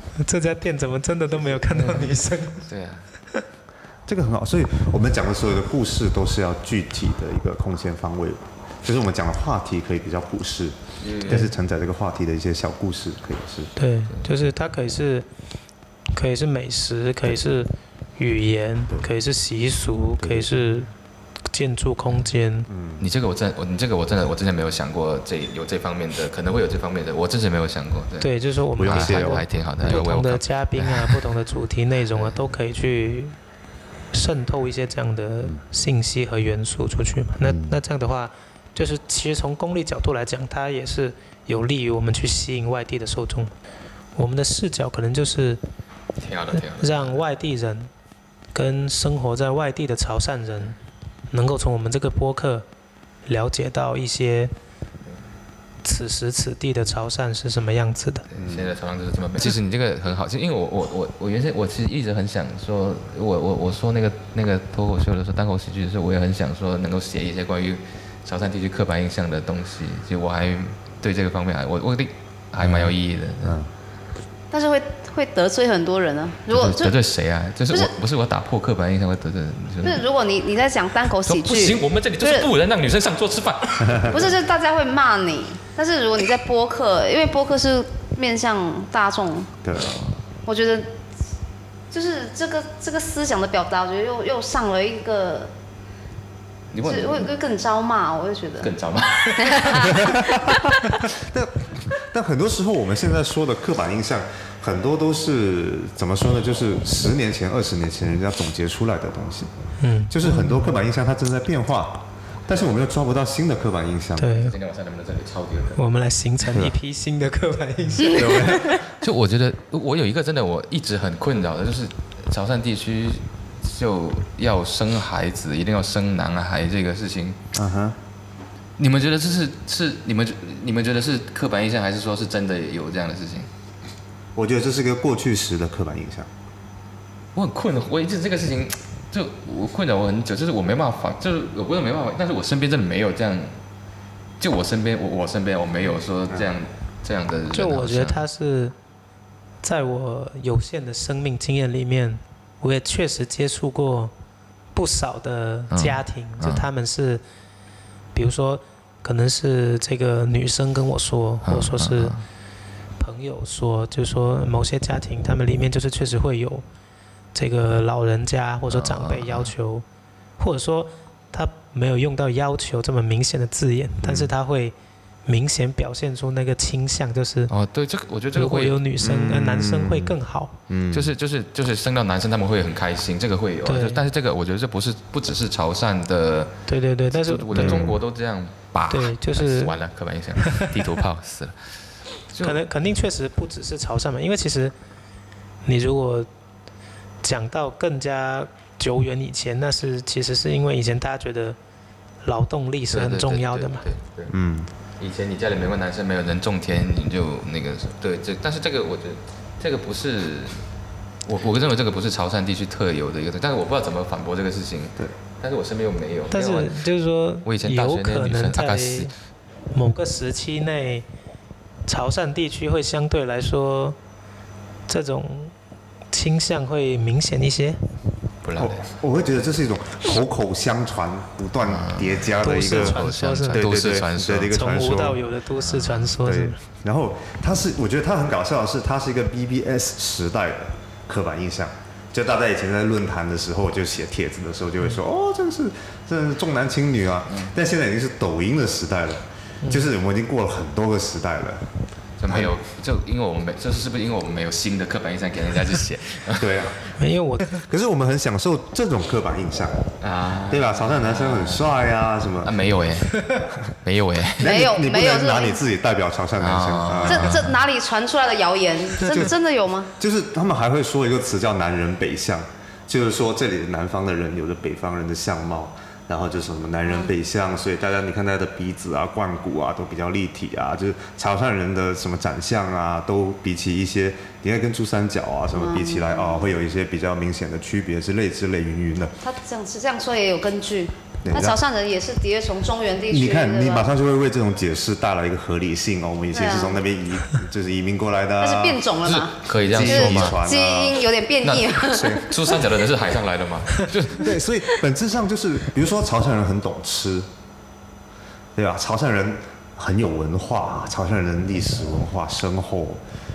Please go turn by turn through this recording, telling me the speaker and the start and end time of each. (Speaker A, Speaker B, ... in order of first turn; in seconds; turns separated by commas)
Speaker A: 0.2-2.7, Speaker B: 1.7-3.1, Speaker C: 4.1-13.7, Speaker B: 11.0-11.5, Speaker A: 13.8-15.3, Speaker A: 16.1-20.9, Speaker C: 20.2-20.5, Speaker A: 21.5-22.7, Speaker C: 22.7-23.1, Speaker B: 23.0-31.2, Speaker A: 28.2-33.4, Speaker C: 28.8-30.0, Speaker B: 32.1-32.4, Speaker A: 34.1-43.5, Speaker C: 37.4-37.8, Speaker A: 44.1-45.6, Speaker B: 46.2-47.2, Speaker A: 46.5-47.9, Speaker A: 48.5-50.8, Speaker A: 51.3-52.6, Speaker A: 53.3-54.5, Speaker A: 55.8-58.3, Speaker B: 58.3-73.6, Speaker C: 58.4-58.7, Speaker C: 72.6-73.7, Speaker D: 74.5-77.0, Speaker B: 76.5-80.0, Speaker D: 79.8-82.5, Speaker B: 81.2-84.3, Speaker C: 83.8-84.3, Speaker D: 84.1-89.5, Speaker C: 89.6-90.0, Speaker B: 89.7-90.2, Speaker D: 90.5-91.0, Speaker D: 91.9-95.5, Speaker B: 96.7-97.3, Speaker D: 96.8-98.7, Speaker B: 98.6-100.1, Speaker D: 99.3-100.6, Speaker C: 101.1-109.5, Speaker A: 109.8-110.7, Speaker C: 110.1-114.4, Speaker A: 114.2-114.5, Speaker B: 114.3-115.8, Speaker A: 115.8-118.5, Speaker C: 116.5-116.7, Speaker C: 118.1-118.7, Speaker B: 118.2-127.4, Speaker C: 127.5-128.0, Speaker B: 128.8-133.5, Speaker C: 134.3-136.3, Speaker B: 137.3-143.6, Speaker B: 144.4-148.2, Speaker A: 147.5-148.8, Speaker A: 149.6-154.1, Speaker A: 154.8-157.2, Speaker B: 155.7-156.7, Speaker A: 158.2-162.2, Speaker B: 161.4-162.3, Speaker A: 163.0-166.7, Speaker A: 167.3-169.8, Speaker B: 168.7-169.5, Speaker A: 170.4-174.7, Speaker C: 174.0-174.3, Speaker A: 175.3-177.5, Speaker B: 177.5-178.8, Speaker A: 178.3-180.6, Speaker C: 179.0-180.2, Speaker C: 180.7-181.1, Speaker B: 180.9-192.6, Speaker A: 183.7-184.0, Speaker A: 186.7-187.9, Speaker C: 187.5-188.0, Speaker A: 188.9-189.7, Speaker A: 192.4-194.7, Speaker A: 195.7-196.3, Speaker A: 197.2-201.6, Speaker A: 202.2-203.9, Speaker B: 202.9-204.3, Speaker C: 204.3-204.7, Speaker B: 205.0-210.7, Speaker B: 211.2-216.8, Speaker A: 216.3-219.1, Speaker B: 217.4-219.1, Speaker A: 219.7-221.1, Speaker A: 221.9-224.0, Speaker A: 224.9-225.5, Speaker A: 226.1-227.9, Speaker B: 228.4-228.9, Speaker C: 228.6-235.2, Speaker B: 231.6-234.6, Speaker A: 232.4-233.6, Speaker A: 234.5-236.6, Speaker B: 235.6-236.2, Speaker C: 236.2-251.7, Speaker B: 247.3-247.5, Speaker A: 249.6-249.9, Speaker B: 252.2-256.6, Speaker C: 252.3-252.5, Speaker C: 256.4-256.8, Speaker A: 257.0-257.5, Speaker C: 257.5-259.9, Speaker B: 260.0-261.7, Speaker C: 260.5-262.6, Speaker B: 262.4-264.6, Speaker C: 264.4-267.4, Speaker D: 264.4-265.6, Speaker B: 266.4-267.5, Speaker D: 267.1-269.9, Speaker C: 269.0-269.4, Speaker C: 270.0-289.1, Speaker D: 285.5-286.5, Speaker D: 289.2-293.9, Speaker C: 291.2-291.6, Speaker C: 293.1-298.9, Speaker D: 296.3-296.8, Speaker D: 298.4-302.6, Speaker B: 299.0-300.4, Speaker C: 299.6-301.1, Speaker B: 301.4-304.4, Speaker C: 301.9-302.2, Speaker C: 304.1-307.3, Speaker C: 308.6-313.1